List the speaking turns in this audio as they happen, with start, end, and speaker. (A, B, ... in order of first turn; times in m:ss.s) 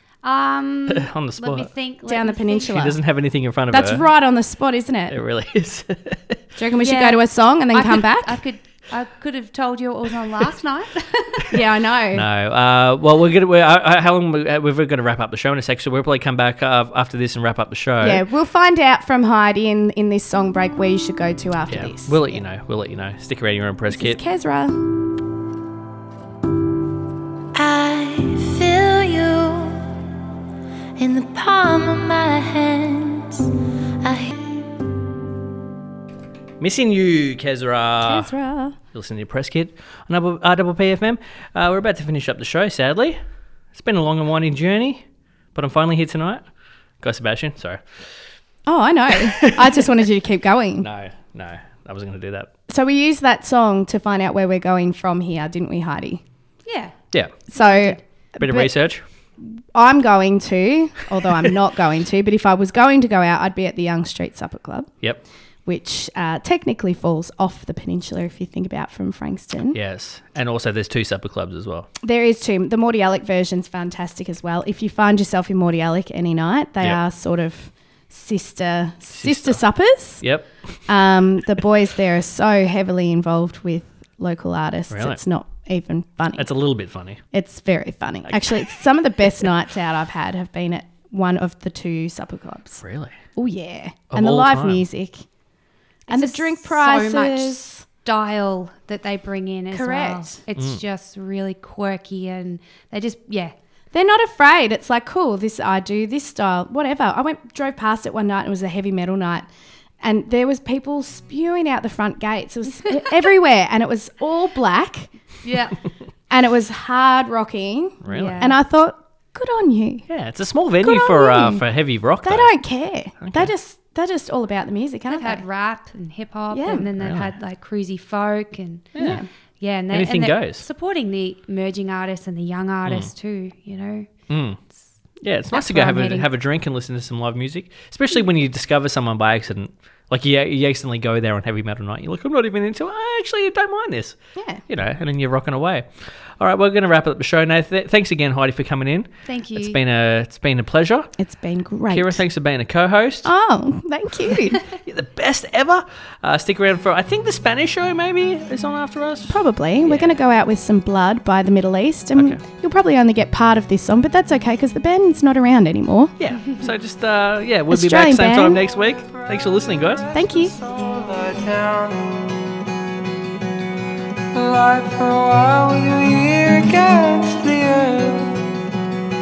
0:00.2-0:02.8 A
0:00.9-0:01.7 B
0:02.1-0:03.0 C
0:02.7-0:04.0 B
0:03.7-0:05.2 C
0:05.1-0:06.4 B
0:06.6-0:08.4 C
0:06.8-0:11.5 A
0:11.5-0:12.2 C
0:12.1-0:18.2 B
0:18.0-0:22.4 C
0:21.7-0:24.2 B
0:23.9-0:24.8 C
0:27.5-0:29.9 D
0:31.0-0:33.5 D
0:34.0-0:34.3 D
0:36.6-0:38.3 B
0:38.0-0:38.8 C
0:38.9-0:43.2 B
0:43.7-0:45.0 B
0:45.6-0:46.4 B
0:47.0-0:47.8 B
0:48.7-0:50.9 C
0:49.3-0:49.8 B
0:50.8-0:52.5 B
0:52.7-0:56.2 C
0:56.7-0:57.0 A
0:57.5-0:58.7 C
0:57.5-0:58.0 A
0:58.4-0:59.0 B
0:59.4-1:04.9 C
1:05.7-1:09.8 C
1:09.7-1:11.9 B
1:12.0-1:20.3 C
1:19.2-1:20.9 B
1:20.9-1:26.5 C
1:24.9-1:25.2 B
1:26.4-1:27.2 B
1:27.3-1:32.8 C
1:28.3-1:28.7 B
1:32.8-1:33.1 B
1:33.4-1:35.2 C
1:34.1-1:34.8 B
1:36.1-1:37.8 C
1:36.1-1:43.5 A
1:39.7-1:40.4 C
1:43.9-1:49.5 C
1:50.0-1:55.2 C
1:55.4-1:55.8 A
1:56.3-2:00.1 C
1:58.0-1:58.4 B
1:58.1-1:58.6 A
2:00.1-2:02.5 B
2:00.8-2:01.6 C
2:02.2-2:05.4 C
2:03.2-2:03.5 B
2:05.1-2:14.1 A
2:06.5-2:06.9 C
2:07.0-2:07.3 B
2:09.0-2:09.2 B
2:09.0-2:09.3 C
2:09.9-2:10.6 B
2:14.3-2:14.6 B
2:15.2-2:24.2 B
2:15.5-2:16.3 A
2:24.4-2:24.6 C
2:24.7-2:25.9 B
2:26.4-2:31.1 B
2:29.3-2:29.8 A
2:31.2-2:32.2 C
2:31.9-2:33.3 B
2:33.2-2:34.6 C
2:34.6-2:40.2 B
2:39.3-2:46.1 C
2:46.2-2:50.1 B
2:47.7-2:48.6 C
2:50.0-2:52.5 E
2:50.1-2:50.5 C
2:54.3-2:58.5 E